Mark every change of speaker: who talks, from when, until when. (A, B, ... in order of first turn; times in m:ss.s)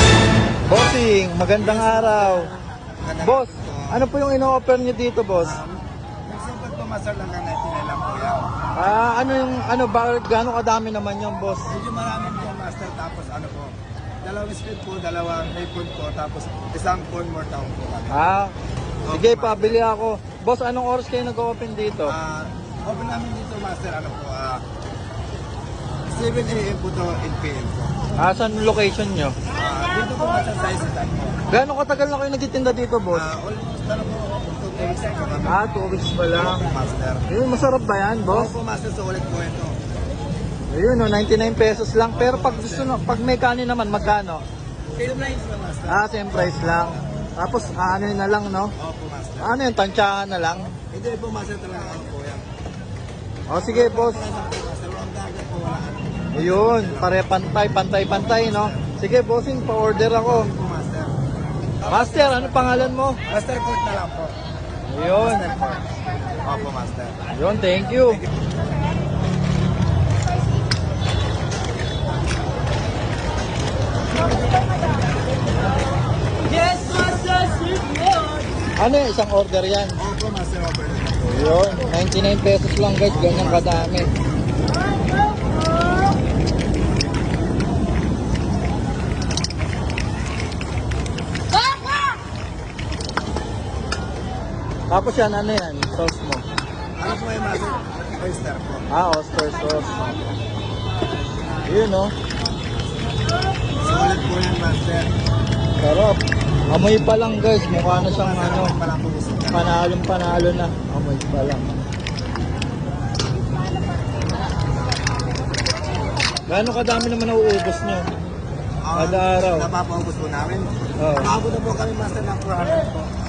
0:00.7-0:02.5 A
0:01.6-0:04.1 B
0:03.2-0:05.6 A
0:05.4-0:08.5 B
0:08.8-0:11.8 A
0:11.7-0:18.4 B
0:18.1-0:18.5 A
0:19.1-0:19.9 B
0:19.1-0:22.2 A
0:22.0-0:24.6 B
0:26.1-0:27.9 B
0:28.2-0:29.4 A
0:29.5-0:31.4 B
0:31.5-0:33.3 A
0:33.1-0:37.3 B
0:35.4-0:36.6 A
0:37.3-0:38.5 A
0:38.3-0:39.8 B
0:40.7-0:44.4 A
0:42.1-0:43.0 B
0:45.0-0:47.0 B
0:45.9-0:48.7 A
0:48.8-0:49.6 B
0:49.4-0:50.7 A
0:50.9-0:52.4 B
0:53.5-0:54.2 A
0:53.5-0:57.2 B
0:56.4-1:00.5 A
0:58.1-0:58.9 B
1:00.1-1:01.2 B
1:01.8-1:04.4 B
1:01.8-1:03.2 A
1:04.9-1:05.5 A
1:05.1-1:07.3 B
1:07.3-1:08.2 A
1:08.0-1:08.3 B
1:18.8-1:20.0 A
1:20.0-1:21.6 B
1:21.3-1:24.1 A
1:23.1-1:24.1 B
1:34.9-1:36.4 A
1:37.0-1:38.9 B
1:38.9-1:40.2 A
1:41.7-1:42.1 A
1:43.7-1:45.1 B
1:45.8-1:48.8 A
1:47.7-1:49.8 B
1:49.5-1:51.7 A
1:56.5-1:58.1 A
1:58.8-2:03.1 B
1:59.0-1:59.7 A
2:01.0-2:01.3 A